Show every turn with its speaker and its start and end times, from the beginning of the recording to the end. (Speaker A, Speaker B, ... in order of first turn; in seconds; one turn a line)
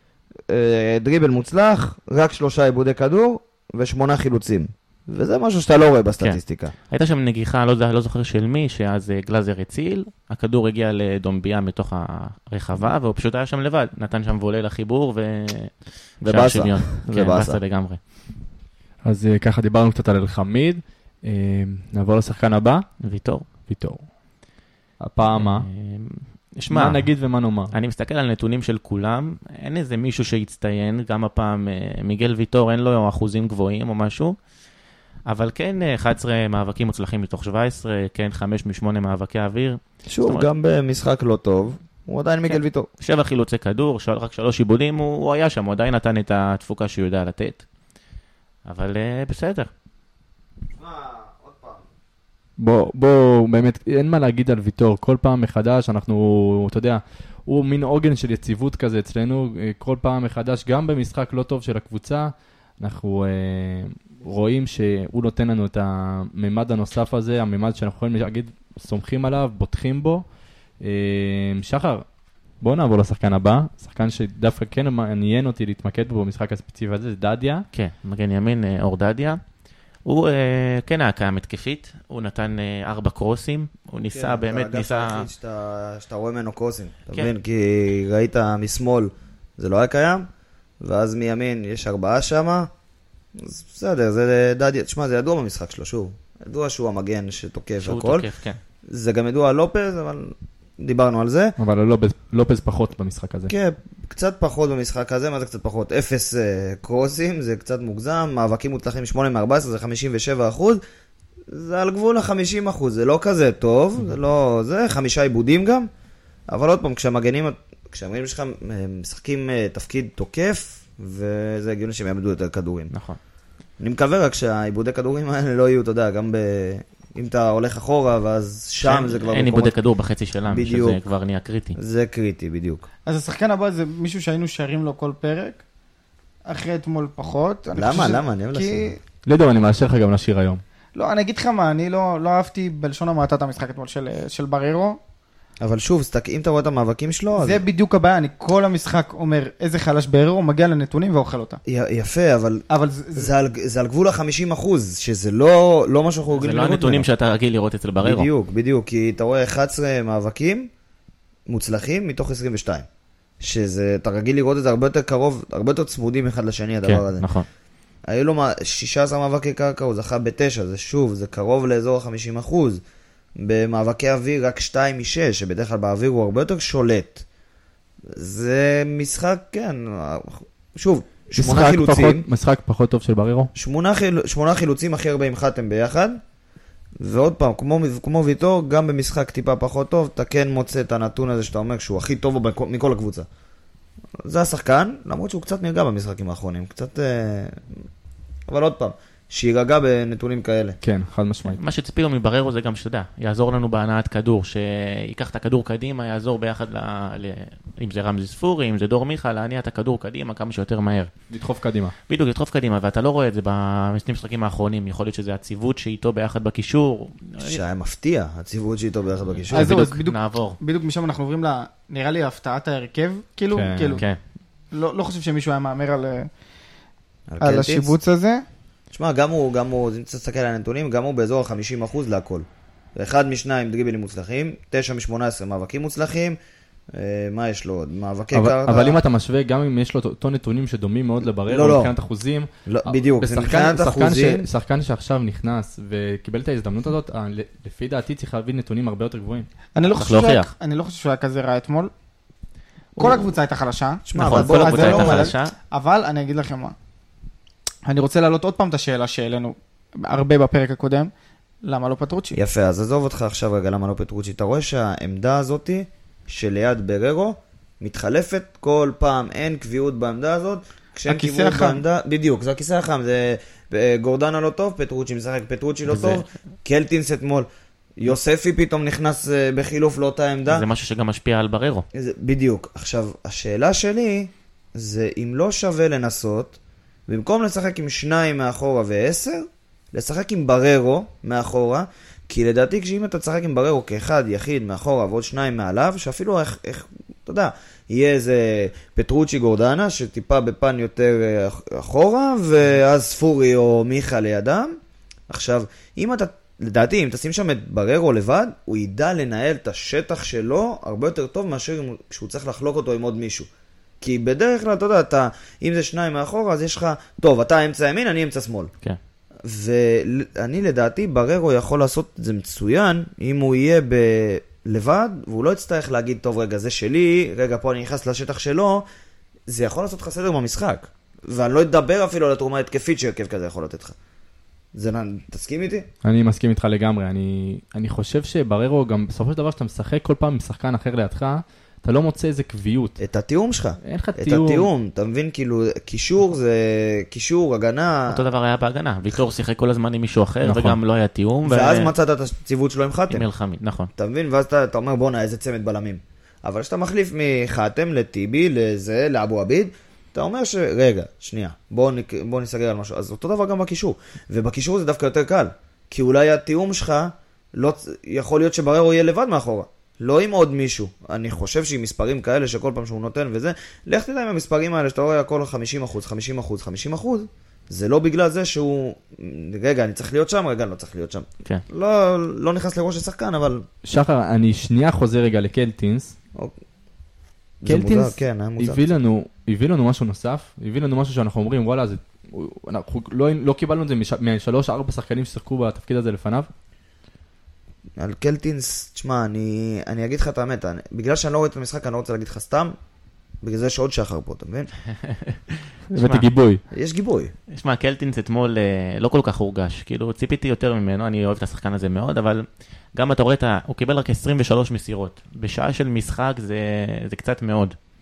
Speaker A: 0.5-6.7
Speaker B: 6.2-18.0
Speaker A: 16.2-17.6
Speaker C: 19.0-22.9
Speaker B: 23.0-23.5
Speaker C: 23.7-24.0
Speaker C: 25.0-25.6
Speaker B: 25.2-27.1
Speaker C: 26.7-27.7
Speaker B: 27.7-34.4
Speaker B: 35.3-40.5
Speaker A: 40.1-42.9
Speaker B: 42.5-47.6
Speaker B: 48.6-49.7
Speaker A: 50.8-51.8
Speaker C: 52.6-70.2
Speaker C: 70.8-72.0
Speaker C: 72.6-77.7
Speaker B: 77.7-79.4
Speaker B: 80.0-85.3
Speaker A: 84.1-90.3
Speaker A: 90.8-92.7
Speaker A: 93.3-98.2
Speaker B: 97.8-98.6
Speaker A: 98.9-101.5
Speaker C: 101.6-103.5
Speaker A: 103.5-110.8
Speaker A: 111.5-115.9
Speaker A: 116.5-122.9
Speaker B: 122.9-123.2
Speaker A: 123.8-129.7
Speaker B: 128.8-131.8
Speaker A: 130.5-131.0
Speaker A: 131.8-132.9
Speaker D: 133.1-135.6
Speaker D: 136.4-139.0
Speaker A: 137.8-138.9
Speaker C: 139.2-140.6
Speaker D: 140.9-145.0
Speaker A: 145.6-147.6
Speaker D: 147.3-151.6
Speaker A: 151.7-157.1
Speaker D: 152.7-153.3
Speaker B: 156.3-158.3
Speaker A: 158.0-160.7
Speaker A: 161.5-162.9
Speaker A: 163.4-167.2
Speaker B: 166.8-167.5
Speaker A: 168.1-172.8
Speaker A: 173.4-177.2
Speaker A: 178.1-182.3
Speaker C: 181.4-183.5
Speaker A: 183.5-186.2
Speaker A: 187.0-193.3
Speaker A: 194.2-197.8
Speaker A: 198.5-200.8
Speaker C: 200.8-201.6
Speaker B: 201.5-211.1
Speaker C: 211.3-211.9
Speaker B: 212.1-217.6
Speaker A: 217.4-219.8
Speaker B: 219.5-220.6
Speaker D: 219.5-224.0
Speaker C: 219.5-220.0
Speaker C: 223.5-224.0
Speaker D: 224.7-226.3
Speaker A: 227.3-228.0
Speaker D: 227.4-228.4
Speaker A: 228.9-236.4
Speaker A: 236.9-239.0
Speaker C: 238.3-249.5
Speaker A: 241.5-241.9
Speaker A: 242.7-244.5
Speaker D: 249.8-251.9
Speaker B: 250.0-250.5
Speaker D: 253.0-256.8
Speaker A: 254.1-255.3
Speaker B: 254.1-255.5
Speaker D: 257.9-261.1
Speaker D: 261.6-262.4
Speaker A: 262.3-277.5
Speaker D: 271.1-271.8
Speaker B: 275.9-276.2
Speaker A: 278.0-280.6
Speaker B: 280.5-281.9
Speaker A: 281.9-304.8
Speaker A: 305.3-313.5
Speaker A: 314.0-318.7
Speaker A: 319.4-328.9
Speaker A: 329.5-334.0
Speaker A: 334.8-335.9
Speaker C: 336.0-343.0
Speaker A: 343.0-348.2
Speaker C: 343.8-344.7
Speaker B: 348.1-351.9
Speaker C: 350.4-350.8
Speaker A: 351.5-353.3
Speaker B: 353.1-353.9
Speaker A: 354.0-383.6
Speaker C: 383.9-386.1
Speaker A: 387.6-388.9
Speaker C: 387.6-396.5
Speaker A: 398.0-402.8
Speaker A: 403.4-404.7
Speaker B: 405.0-406.2
Speaker C: 405.9-406.6
Speaker A: 406.7-407.3
Speaker B: 407.5-417.8